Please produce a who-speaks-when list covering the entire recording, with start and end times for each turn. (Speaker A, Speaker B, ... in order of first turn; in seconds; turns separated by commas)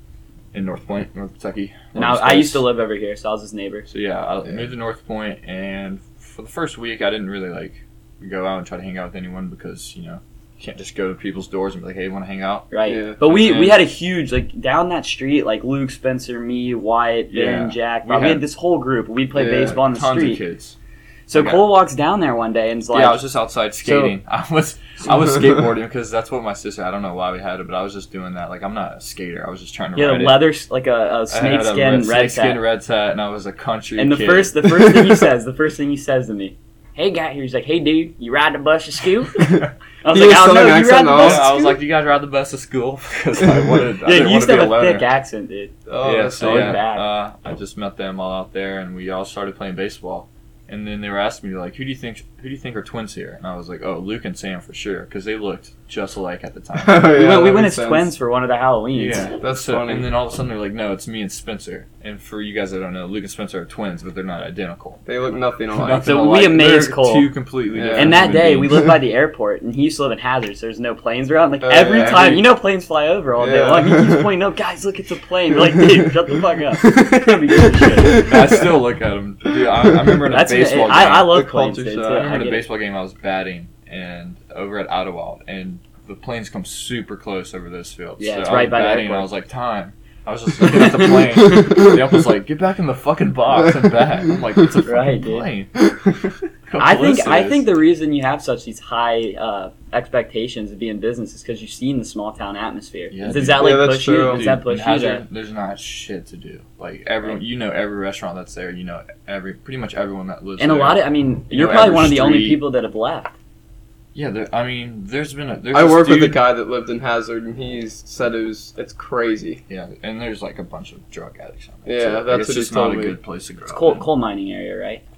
Speaker A: 0.5-2.7, Speaker B: 1.9-3.9, Speaker A: 3.9-13.8, Speaker B: 12.7-20.4, Speaker C: 12.9-13.2, Speaker A: 17.3-18.4, Speaker C: 19.4-19.8, Speaker A: 19.8-20.8, Speaker B: 21.3-23.2, Speaker A: 21.3-21.6, Speaker A: 22.9-30.5, Speaker B: 23.8-24.1, Speaker B: 30.0-32.6, Speaker A: 31.3-34.5, Speaker B: 34.0-41.5, Speaker C: 34.8-35.2, Speaker C: 39.4-41.7, Speaker A: 41.2-45.1, Speaker B: 44.0-45.7, Speaker C: 45.9-46.8, Speaker A: 46.0-57.2, Speaker B: 46.4-47.0, Speaker C: 56.8-58.1, Speaker B: 57.1-59.3, Speaker A: 59.0-65.0, Speaker C: 59.4-60.1, Speaker C: 65.1-66.2, Speaker A: 65.7-68.9, Speaker B: 66.0-67.3, Speaker C: 67.7-68.3, Speaker B: 67.9-78.3, Speaker C: 71.6-72.5, Speaker C: 73.4-74.3, Speaker C: 76.8-78.6, Speaker A: 78.2-81.4, Speaker B: 80.3-82.6, Speaker C: 81.2-82.4, Speaker A: 82.2-95.7, Speaker B: 88.2-89.3, Speaker B: 94.9-95.5, Speaker A: 96.7-97.7, Speaker B: 96.8-105.2, Speaker A: 103.1-112.6, Speaker C: 103.4-104.5, Speaker B: 110.6-113.3, Speaker A: 114.1-116.4, Speaker C: 115.7-119.6, Speaker A: 119.7-124.1, Speaker C: 121.9-123.2, Speaker B: 123.7-125.0